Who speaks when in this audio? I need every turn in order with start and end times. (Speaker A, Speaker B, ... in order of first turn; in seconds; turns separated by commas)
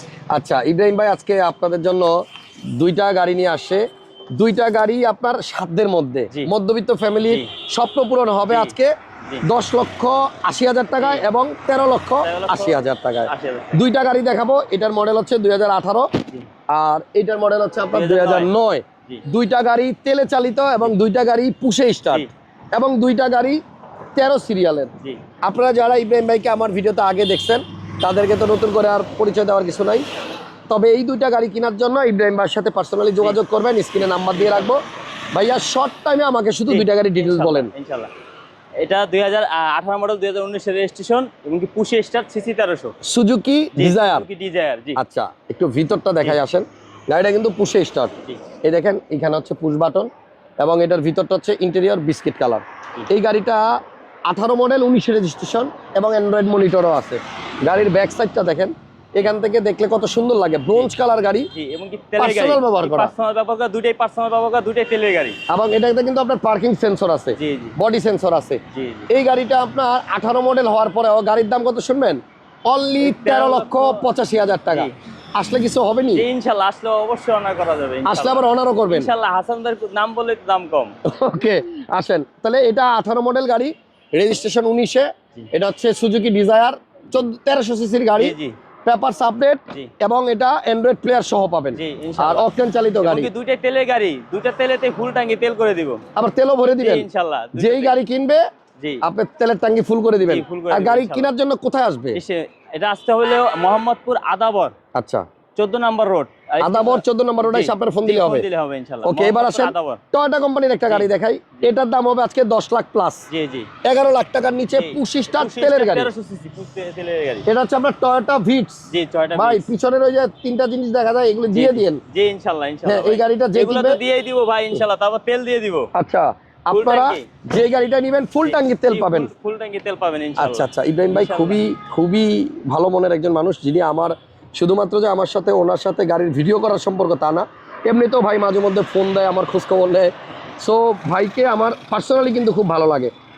Speaker A: 0.3-2.1, Speaker A: 2.8-3.8, Speaker A: 4.4-16.1, Speaker B: 8.5-9.5, Speaker B: 10.9-11.3, Speaker B: 12.2-13.8, Speaker A: 16.7-23.6, Speaker B: 17.9-18.5, Speaker A: 24.2-30.0, Speaker A: 30.7-34.8, Speaker B: 34.3-34.7, Speaker A: 35.3-37.7, Speaker B: 36.7-38.1, Speaker B: 38.8-42.9, Speaker A: 43.1-44.2, Speaker B: 43.8-45.0, Speaker A: 45.0-53.7, Speaker A: 54.3-61.5, Speaker B: 61.5-65.4, Speaker A: 62.2-63.1, Speaker A: 65.5-76.2, Speaker B: 67.4-67.8, Speaker B: 68.7-69.1, Speaker B: 73.0-74.1, Speaker B: 74.7-74.9, Speaker B: 76.1-80.9, Speaker A: 78.0-79.1, Speaker A: 81.0-93.3, Speaker B: 88.2-88.5, Speaker B: 91.7-92.5, Speaker B: 93.0-96.0, Speaker A: 96.2-98.4, Speaker B: 96.8-98.0, Speaker A: 99.0-102.2, Speaker B: 100.2-101.3, Speaker B: 102.1-104.7, Speaker A: 104.9-105.2, Speaker B: 105.5-110.0, Speaker A: 106.6-108.5, Speaker A: 109.0-113.3, Speaker B: 110.8-111.7, Speaker B: 113.3-113.7, Speaker A: 113.8-116.1, Speaker B: 114.7-117.5, Speaker A: 117.5-122.0, Speaker B: 118.9-119.7, Speaker B: 121.5-125.9, Speaker A: 122.8-124.0, Speaker A: 125.9-129.3, Speaker B: 126.7-127.3, Speaker B: 128.4-131.6, Speaker A: 130.4-143.1